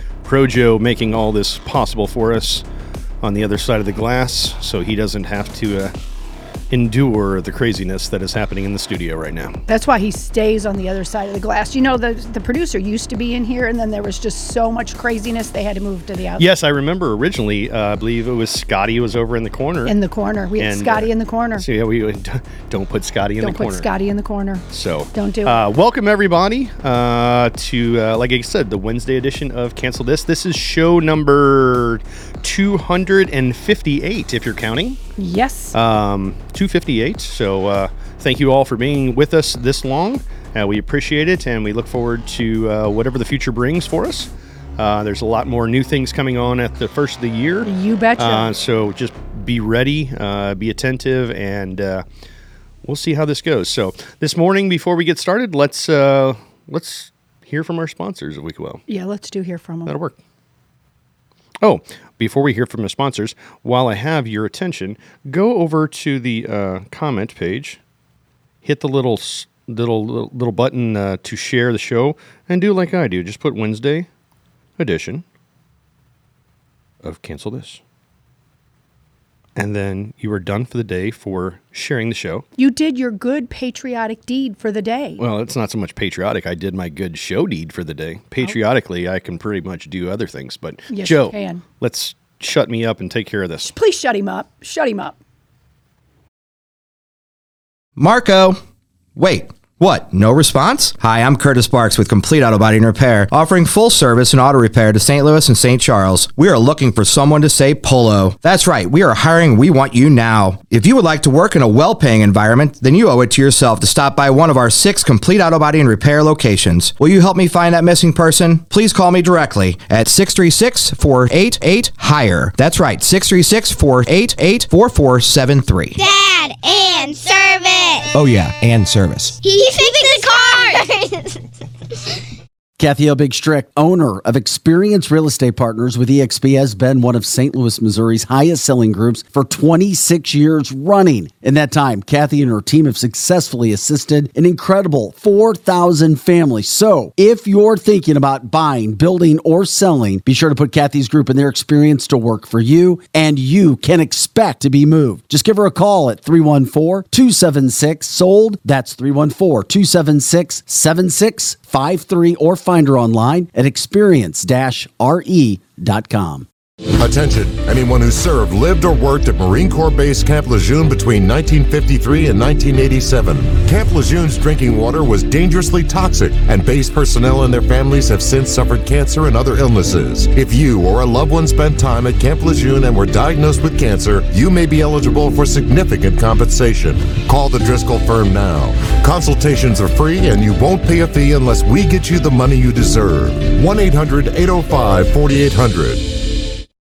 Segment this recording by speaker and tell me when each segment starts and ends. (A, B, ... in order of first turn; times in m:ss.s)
0:00.2-0:02.6 A
0:03.2-0:05.9 A
0:06.7-0:09.6 A
0:09.7-0:16.5 B
0:16.4-0:20.0 A
0:19.8-0:21.6 B
0:20.6-0:23.9 A
0:23.4-0:25.6 B
0:24.7-0:35.0 A
0:35.2-0:35.8 B
0:35.7-0:52.0 A
0:47.6-0:48.5 B
0:52.8-0:58.8 A
0:58.9-1:00.0 B
0:59.9-1:00.2 A
1:01.6-1:07.8 A
1:08.6-1:14.1 A
1:14.8-1:15.2 A
1:17.0-1:17.8 A
1:19.6-1:22.4 A
1:22.6-1:25.2 B
1:25.2-1:33.7 A
1:30.9-1:31.6 B
1:33.6-1:35.2 B
1:38.0-1:38.6 C
1:39.2-2:06.0 C
2:06.0-2:08.1 D
2:08.2-2:09.4 C
2:09.4-2:11.4 D
2:12.8-2:46.5 E
2:46.9-3:16.5 F